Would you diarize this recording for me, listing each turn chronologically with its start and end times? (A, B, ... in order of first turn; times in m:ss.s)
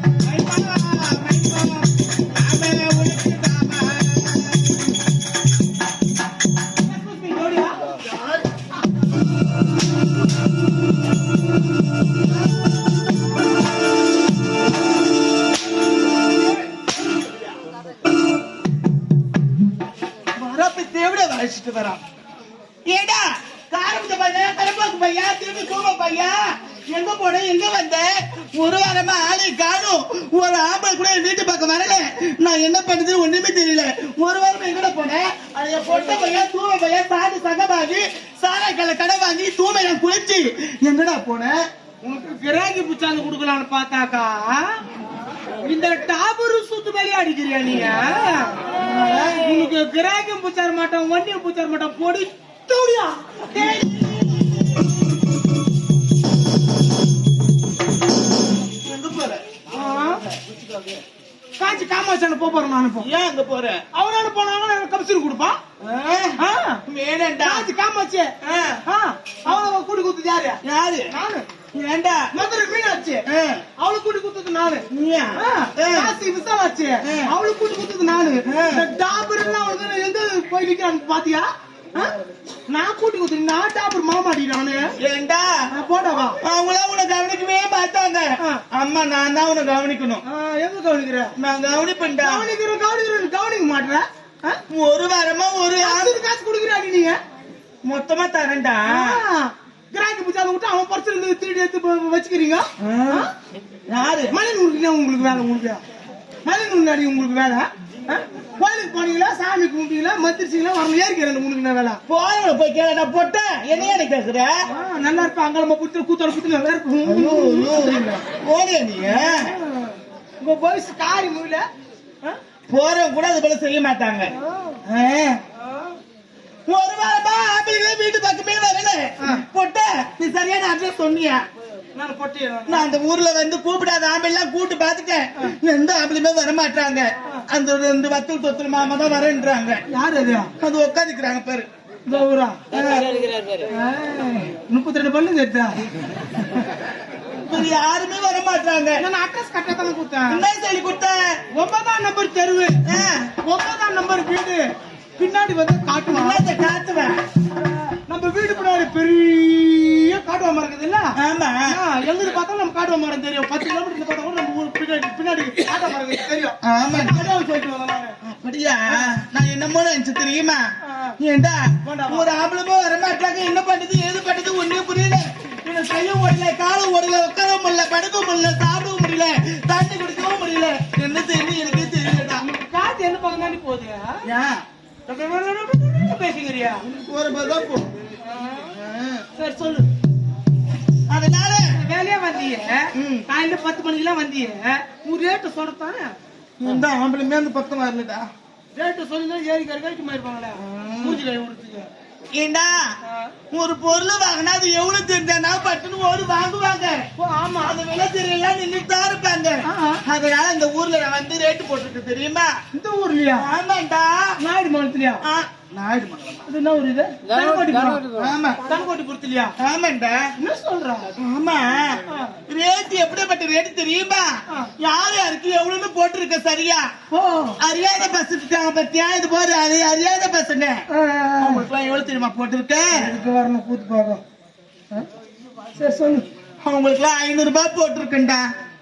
0:00.2-0:04.8 A
0:06.8-0:07.8 B
0:20.4-0:22.0 A
0:22.9-0:41.6 A
0:42.0-0:44.8 B
0:45.6-0:53.8 B
0:48.8-0:49.3 A
0:53.5-0:54.9 A
0:58.8-0:59.4 A
0:59.7-1:00.2 B
1:00.3-1:01.0 A
1:01.6-1:03.1 B
1:03.0-1:03.8 A
1:03.9-1:05.6 B
1:05.8-1:07.7 A
1:06.4-1:06.8 B
1:07.4-1:11.5 B
1:08.4-1:08.8 A
1:10.6-1:11.1 A
1:11.7-1:12.3 A
1:12.3-1:13.2 B
1:13.3-1:13.6 A
1:13.8-1:22.1 B
1:14.9-1:16.1 A
1:17.0-1:17.3 A
1:18.5-1:18.9 A
1:22.7-1:24.9 B
1:25.0-1:25.6 A
1:25.7-1:26.4 B
1:26.4-1:30.2 A
1:30.2-1:31.3 B
1:31.4-1:32.5 A
1:32.2-1:34.6 B
1:34.7-1:36.2 A
1:35.8-1:37.2 B
1:37.8-1:39.2 A
1:38.9-1:43.3 B
1:42.8-1:43.3 A
1:43.9-1:44.3 A
1:44.3-1:45.8 B
1:46.5-1:52.0 B
1:52.1-1:54.6 A
1:54.7-1:58.2 B
1:57.0-1:59.5 A
1:59.0-2:01.6 B
2:02.7-2:04.3 A
2:04.3-2:04.8 B
2:04.8-2:05.4 A
2:05.6-2:06.0 B
2:06.7-2:11.4 A
2:12.0-2:12.9 B
2:12.7-2:19.8 A
2:19.9-2:20.5 B
2:20.6-2:21.7 A
2:22.1-2:22.6 B
2:22.7-2:23.2 A
2:23.7-2:25.8 B
2:27.4-2:29.0 A
2:29.0-2:30.4 B
2:30.3-2:31.3 A
2:31.5-2:32.8 B
2:32.9-2:33.3 A
2:33.4-2:34.6 B
2:35.2-2:36.4 B
2:36.1-2:37.2 A
2:38.0-2:48.2 B
2:41.2-2:41.8 A
2:46.6-2:47.3 A
2:48.2-2:50.7 A
2:50.8-2:51.2 B
2:51.2-3:02.4 A
2:51.8-2:52.3 B
3:02.4-3:04.2 B
3:04.3-3:04.6 A
3:05.1-3:06.8 B
3:06.8-3:07.9 A
3:08.2-3:08.8 B
3:08.7-3:09.2 A
3:09.3-3:09.9 B
3:11.1-3:11.7 A
3:11.7-3:16.2 B
3:13.0-3:13.3 A
3:16.6-3:18.3 A
3:18.8-3:21.9 B
3:20.6-3:21.2 A
3:22.4-3:22.9 A
3:23.0-3:23.3 B
3:23.5-3:27.0 A
3:27.2-3:27.8 B
3:27.6-3:32.5 A
3:29.6-3:30.0 B
3:32.7-3:33.5 B
3:33.4-3:34.3 A
3:34.4-3:35.2 B
3:35.2-3:36.4 A
3:36.5-3:38.1 B
3:38.1-3:38.6 A
3:38.6-3:39.5 B
3:39.6-3:40.2 A
3:40.4-3:41.1 B
3:41.2-3:46.9 A
3:42.1-3:42.4 B
3:47.1-3:47.6 B
3:47.6-3:50.8 A
3:50.9-3:51.7 B
3:51.4-3:53.1 A
3:52.9-3:54.2 B
3:55.8-3:56.3 B
3:56.6-3:58.5 A